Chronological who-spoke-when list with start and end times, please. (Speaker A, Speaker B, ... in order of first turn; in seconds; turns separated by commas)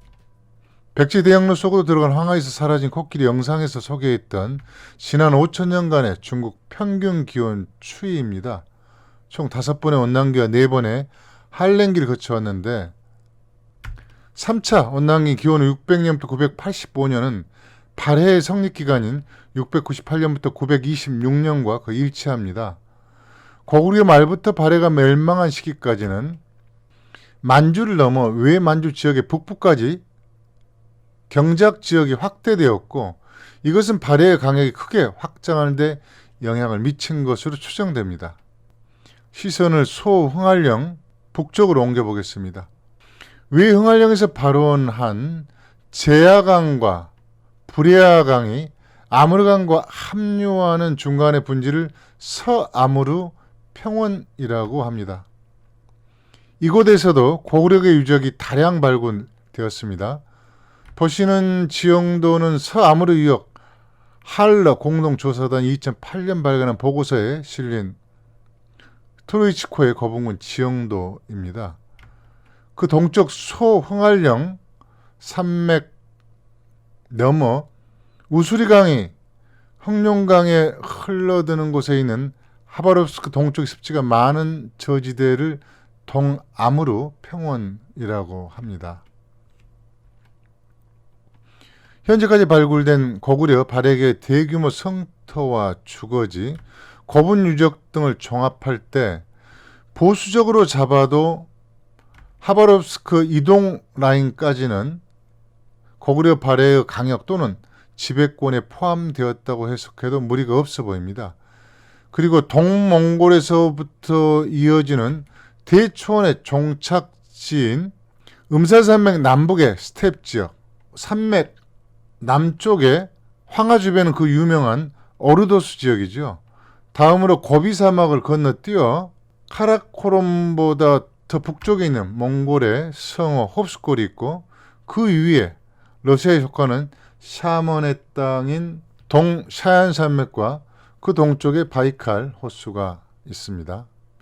Speaker A: 0.9-8.6, Speaker A: 9.3-12.9, Speaker A: 14.3-22.8, Speaker A: 23.7-26.4, Speaker A: 27.4-30.0, Speaker A: 31.3-38.4, Speaker A: 39.3-42.7, Speaker A: 43.5-47.1, Speaker A: 47.7-55.3, Speaker A: 56.6-60.2, Speaker A: 61.0-63.5, Speaker A: 64.2-68.0, Speaker A: 69.3-71.8, Speaker A: 72.8-74.6, Speaker A: 75.2-75.9, Speaker A: 77.1-77.7, Speaker A: 78.3-79.1, Speaker A: 79.8-89.0, Speaker A: 92.0-99.2, Speaker A: 99.9-101.5, Speaker A: 102.4-105.0, Speaker A: 106.0-111.4, Speaker A: 112.1-117.9, Speaker A: 118.5-121.5, Speaker A: 122.2-126.4, Speaker A: 126.9-143.9